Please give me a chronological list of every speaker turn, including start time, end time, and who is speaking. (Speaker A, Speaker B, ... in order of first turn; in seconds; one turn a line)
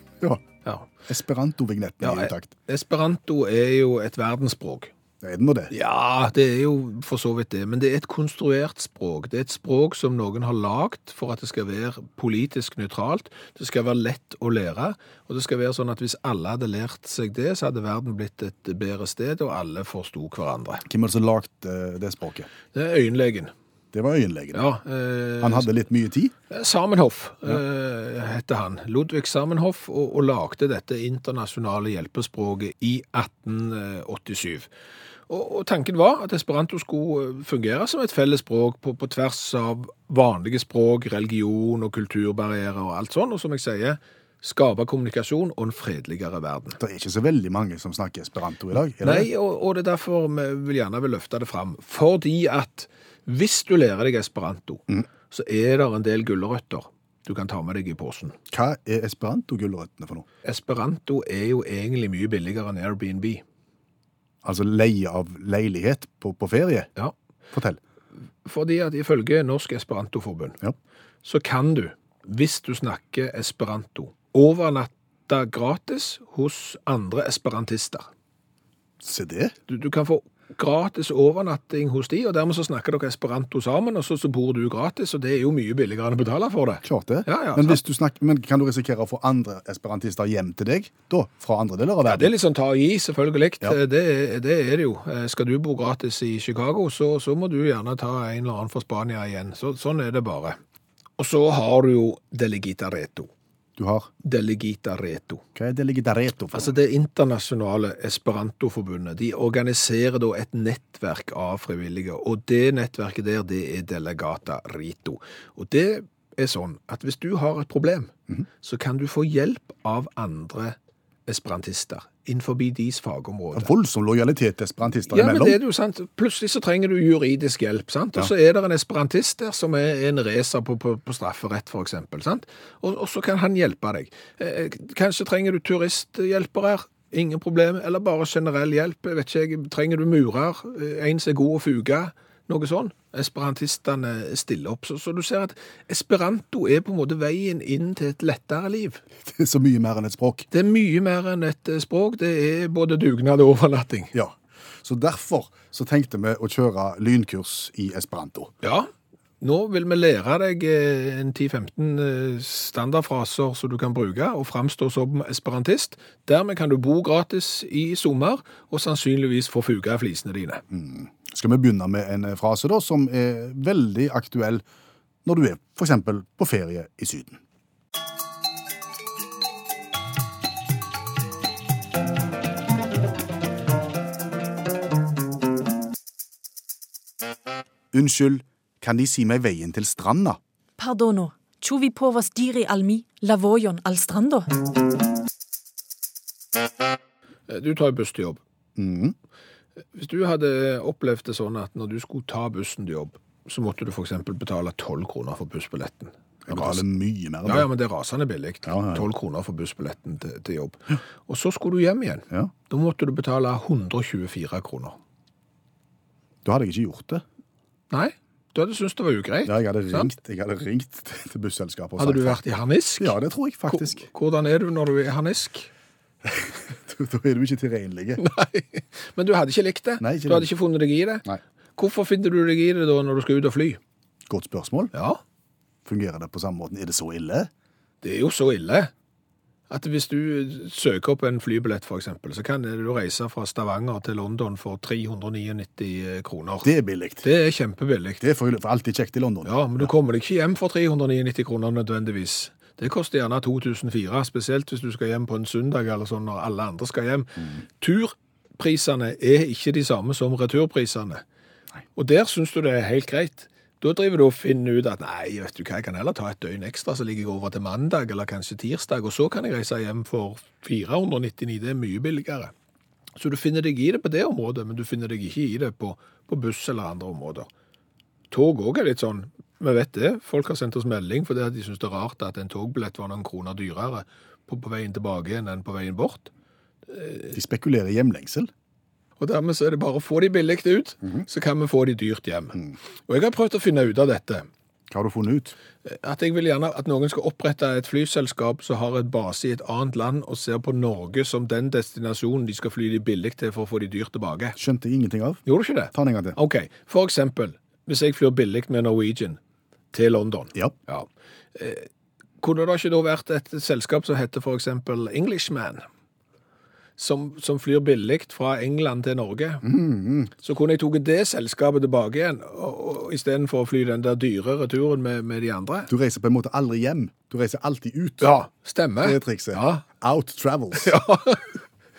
Speaker A: 1.1-2.5
Speaker B: 2.0-4.9
Speaker A: 5.2-5.7
Speaker B: 5.7-20.9
Speaker A: 20.9-22.5
Speaker B: 22.7-23.5
Speaker A: 23.9-24.7
Speaker B: 24.5-25.7
Speaker A: 25.4-26.3
Speaker B: 26.5-34.7
Speaker B: 35.3-46.8
Speaker A: 46.8-49.3
Speaker B: 49.0-58.4
Speaker A: 58.5-60.2
Speaker B: 60.4-63.4
Speaker A: 64.4-66.9
Speaker A: 67.5-67.8
Speaker B: 68.4-70.6
Speaker B: 71.2-78.1
Speaker A: 79.0-79.5
Speaker B: 79.7-87.8
Speaker A: 86.8-92.3
Speaker B: 92.0-100.6
Speaker B: 101.2-103.3
Speaker A: 103.8-104.1
Speaker B: 104.2-105.4
Speaker A: 105.5-106.8
Speaker B: 106.5-123.7
Speaker A: 123.5-125.6
Speaker B: 125.1-149.0
Speaker A: 149.2-150.5
Speaker B: 150.5-154.1
Speaker A: 154.1-158.5
Speaker B: 158.6-158.9
Speaker B: 159.4-170.6
Speaker A: 170.7-174.6
Speaker A: 175.2-177.4
Speaker A: 187.9-190.4
Speaker C: 190.8-194.5
Speaker B: 197.5-198.4
Speaker A: 198.8-199.1
Speaker B: 199.9-206.8
Speaker A: 206.4-207.7
Speaker B: 207.4-215.0
Speaker A: 208.6-209.1
Speaker A: 216.4-217.2
Speaker B: 217.9-220.1
Speaker A: 219.4-222.4
Speaker B: 222.0-223.2
Speaker A: 223.0-224.1
Speaker B: 223.7-225.7
Speaker A: 226.2-228.2
Speaker B: 228.2-231.2
Speaker A: 230.0-230.5
Speaker B: 231.8-233.8
Speaker A: 234.3-234.9
Speaker B: 234.9-235.2
Speaker A: 235.8-237.5
Speaker B: 238.0-238.9
Speaker B: 239.7-246.7
Speaker A: 246.6-247.3
Speaker B: 247.2-248.2
Speaker A: 248.2-249.9
Speaker B: 249.4-261.2
Speaker B: 261.9-272.5
Speaker B: 273.2-277.5
Speaker B: 278.3-286.3
Speaker B: 286.9-287.3
Speaker A: 287.3-288.5
Speaker B: 289.2-294.5
Speaker A: 294.9-295.5
Speaker B: 295.9-304.6
Speaker A: 304.6-306.4
Speaker B: 305.4-309.4
Speaker B: 309.9-311.9
Speaker B: 312.4-315.9
Speaker B: 317.0-319.7
Speaker A: 319.6-320.3
Speaker B: 320.4-325.9
Speaker A: 325.9-328.4
Speaker B: 328.2-329.9
Speaker A: 329.0-330.9
Speaker B: 330.8-331.6